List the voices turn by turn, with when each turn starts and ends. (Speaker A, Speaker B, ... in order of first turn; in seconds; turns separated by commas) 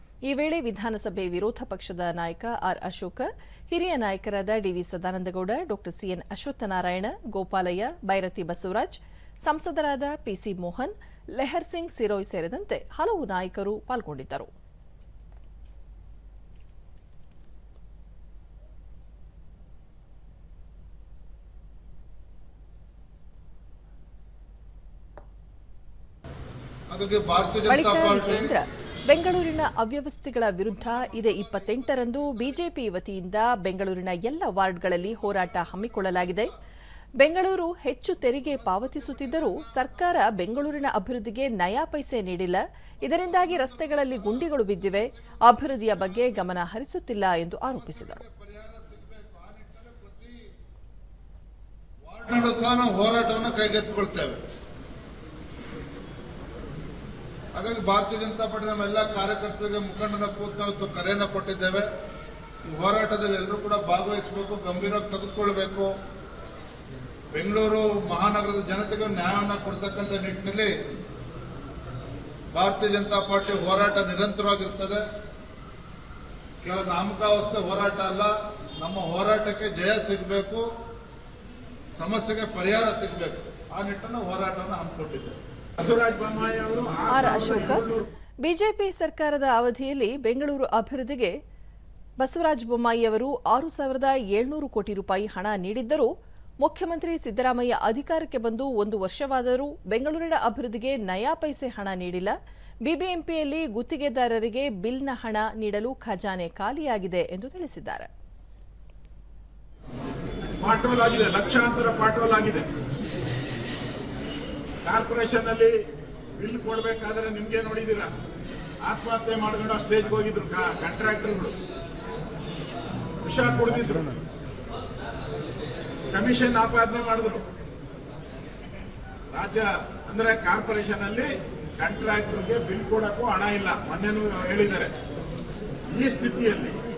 Speaker A: 0.3-14.5, Speaker B: 26.9-28.5, Speaker A: 27.7-36.5, Speaker B: 30.9-32.2, Speaker B: 35.6-36.3, Speaker A: 37.2-48.2, Speaker B: 38.7-40.3, Speaker B: 43.0-46.3, Speaker B: 47.7-50.4, Speaker B: 52.0-54.4, Speaker B: 57.5-61.9, Speaker B: 62.6-65.9, Speaker B: 67.3-70.7, Speaker B: 72.5-75.0, Speaker B: 76.6-80.7, Speaker B: 82.0-85.4, Speaker C: 85.8-88.1, Speaker A: 87.1-87.9, Speaker A: 88.4-91.4, Speaker A: 92.2-96.1, Speaker A: 96.6-102.3, Speaker A: 102.8-108.1, Speaker C: 110.6-112.7, Speaker C: 114.8-115.8, Speaker C: 116.4-118.1, Speaker C: 118.8-121.6, Speaker C: 123.2-124.2, Speaker C: 126.1-127.4, Speaker C: 129.3-135.0, Speaker C: 135.9-136.8